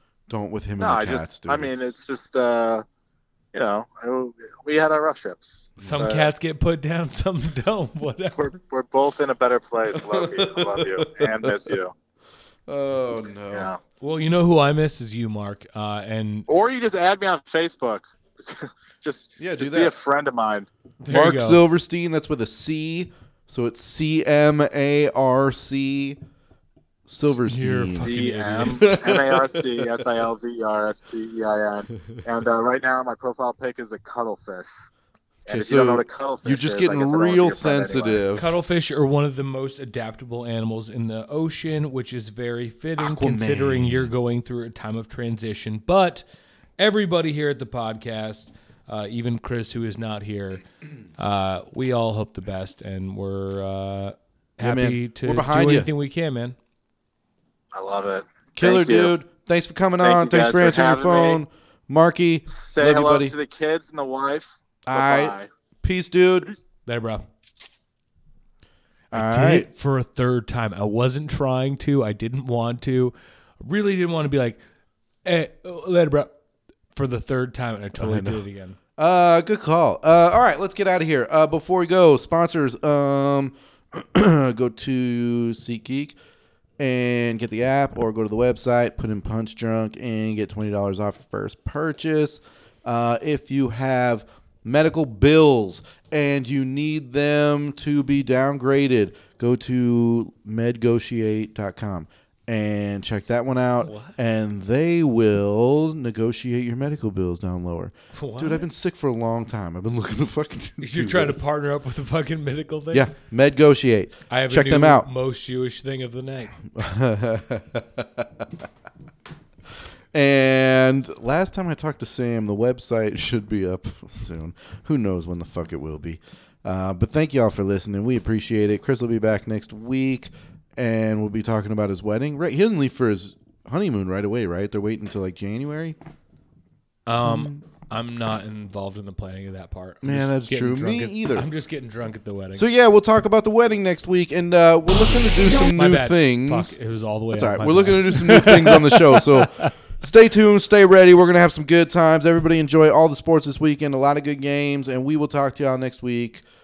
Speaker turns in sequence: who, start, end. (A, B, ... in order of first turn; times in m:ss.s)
0:00.3-0:01.9 A
0:00.8-0:02.8 B
0:03.5-0:06.3 B
0:05.8-0:06.1 A
0:05.8-0:08.6 C
0:08.4-0:11.9 B
0:10.0-0:11.8 A
0:12.7-0:13.7 A
0:13.5-0:13.8 B
0:14.0-0:16.5 C
0:16.5-0:20.7 B
0:19.4-0:20.0 A
0:21.0-0:21.6 C
0:21.1-0:26.2 A
0:27.0-0:30.1 A
0:27.3-0:28.9 C
0:28.0-0:34.7 B
0:35.5-0:38.3 B
0:35.5-0:38.6 A
0:38.4-0:46.2 C
0:43.0-0:44.1 A
0:46.8-0:50.6 C
0:51.2-0:56.6 C
0:54.6-0:55.9 A
0:57.7-0:59.2 B
0:58.6-1:03.4 A
1:00.0-1:01.4 B
1:02.5-1:05.5 B
1:04.8-1:06.5 A
1:06.9-1:07.2 C
1:09.1-1:14.6 C
1:09.1-1:09.7 A
1:15.2-1:16.3 C
1:17.0-1:18.8 C
1:18.0-1:18.4 A
1:19.0-1:26.2 A
1:26.8-1:51.5 A
1:43.8-1:44.2 C
1:48.1-1:48.7 C
1:50.8-1:53.1 C
1:52.9-1:55.1 A
1:54.3-1:56.6 C
1:56.7-1:58.5 A
2:00.1-2:16.0 A
2:17.1-2:22.6 C
2:17.1-2:17.6 A
2:20.0-2:21.5 A
2:22.6-2:26.8 A
2:25.4-2:29.7 C
2:27.3-2:36.4 A